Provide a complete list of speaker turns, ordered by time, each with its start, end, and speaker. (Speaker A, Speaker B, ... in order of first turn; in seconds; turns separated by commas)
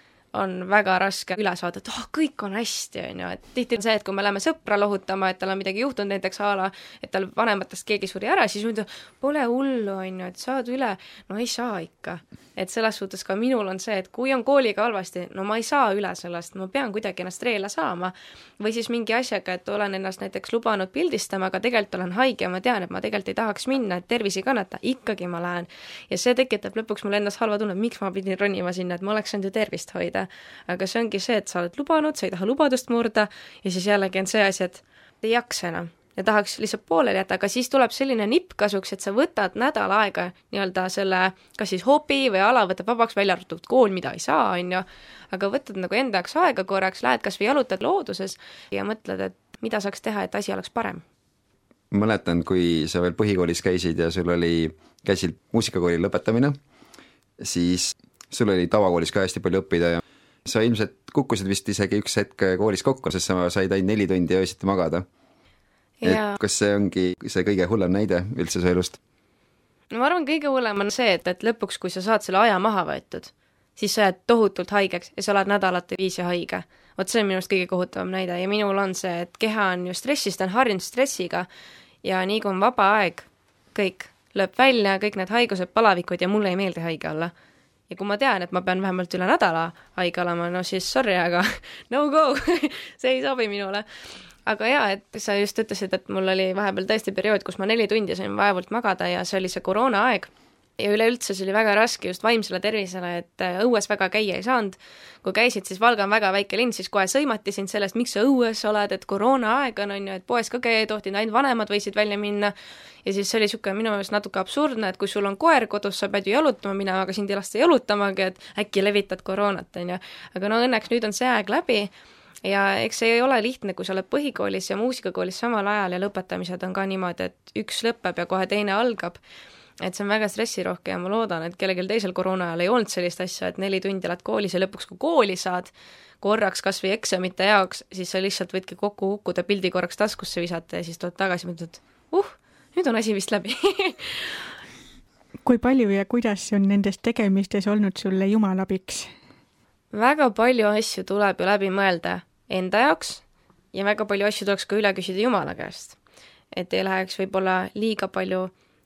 Speaker A: 0.3-51.0, Speaker B: 51.9-56.6, Speaker B: 57.4-65.0, Speaker A: 66.0-66.4, Speaker B: 66.0-69.0, Speaker A: 69.9-81.5, Speaker A: 82.0-87.3, Speaker A: 87.9-93.8, Speaker A: 94.5-112.5, Speaker A: 113.0-121.9, Speaker A: 122.4-129.2, Speaker A: 129.8-144.4, Speaker C: 145.4-149.1, Speaker A: 149.9-153.2, Speaker A: 153.7-156.0, Speaker A: 156.5-158.5